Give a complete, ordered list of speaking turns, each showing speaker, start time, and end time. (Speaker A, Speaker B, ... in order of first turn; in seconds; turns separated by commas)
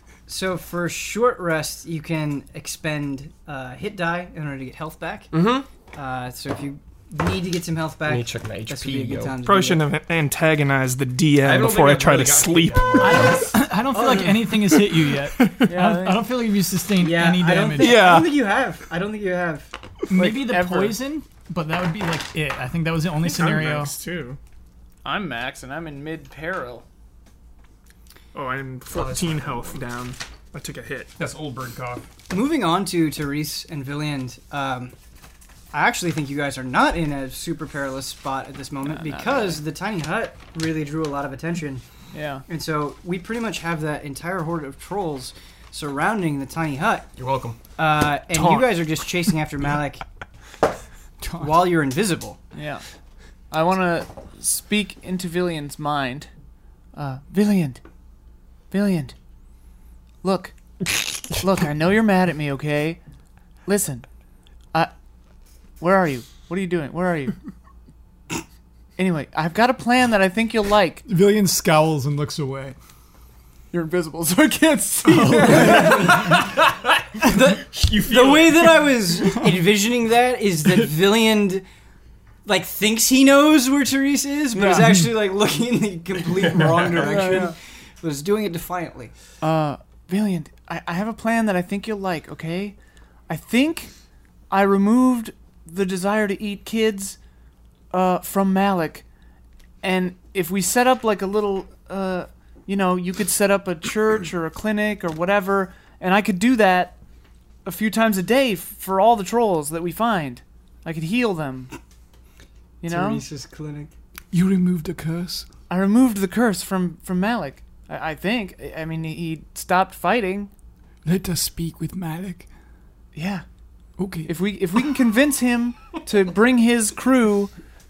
Speaker A: 0.3-5.3, Speaker B: 5.3-5.7, Speaker A: 5.9-9.8, Speaker B: 8.1-9.3, Speaker C: 9.4-13.4, Speaker B: 11.4-13.4, Speaker D: 13.0-18.1, Speaker A: 13.9-14.4, Speaker C: 15.4-15.7, Speaker E: 15.7-16.2, Speaker A: 17.0-19.7, Speaker C: 17.8-18.3, Speaker D: 20.1-23.9, Speaker E: 20.1-21.0, Speaker C: 23.2-24.4, Speaker E: 23.3-23.9, Speaker E: 25.0-26.8, Speaker C: 28.3-31.1, Speaker B: 28.9-29.4, Speaker B: 31.2-32.0, Speaker A: 32.3-34.9, Speaker A: 35.7-41.8, Speaker E: 38.9-39.6, Speaker E: 42.1-42.4, Speaker A: 42.5-47.0, Speaker B: 47.2-47.6, Speaker A: 47.8-50.0, Speaker D: 51.2-51.5, Speaker A: 51.4-52.4, Speaker E: 52.5-52.8, Speaker E: 53.5-56.3, Speaker E: 57.0-57.8, Speaker E: 58.7-59.1, Speaker E: 60.2-60.5, Speaker E: 61.3-63.0, Speaker E: 63.7-64.0, Speaker E: 65.8-67.3, Speaker E: 69.0-71.0, Speaker D: 71.0-72.8, Speaker E: 73.7-76.2, Speaker D: 75.0-76.2, Speaker B: 76.0-77.0, Speaker A: 77.2-81.6, Speaker B: 77.7-78.8, Speaker A: 82.5-89.1, Speaker E: 84.5-84.9, Speaker B: 86.5-86.9, Speaker E: 86.9-87.5, Speaker E: 89.4-92.8, Speaker E: 93.3-93.9, Speaker E: 94.5-97.2, Speaker E: 97.9-99.0, Speaker E: 99.8-107.0, Speaker E: 107.6-111.7, Speaker E: 112.8-113.2, Speaker A: 112.9-113.9, Speaker D: 114.3-115.5, Speaker E: 115.7-120.5, Speaker D: 121.0-122.5, Speaker E: 123.1-123.4, Speaker D: 124.0-124.3, Speaker E: 124.2-127.5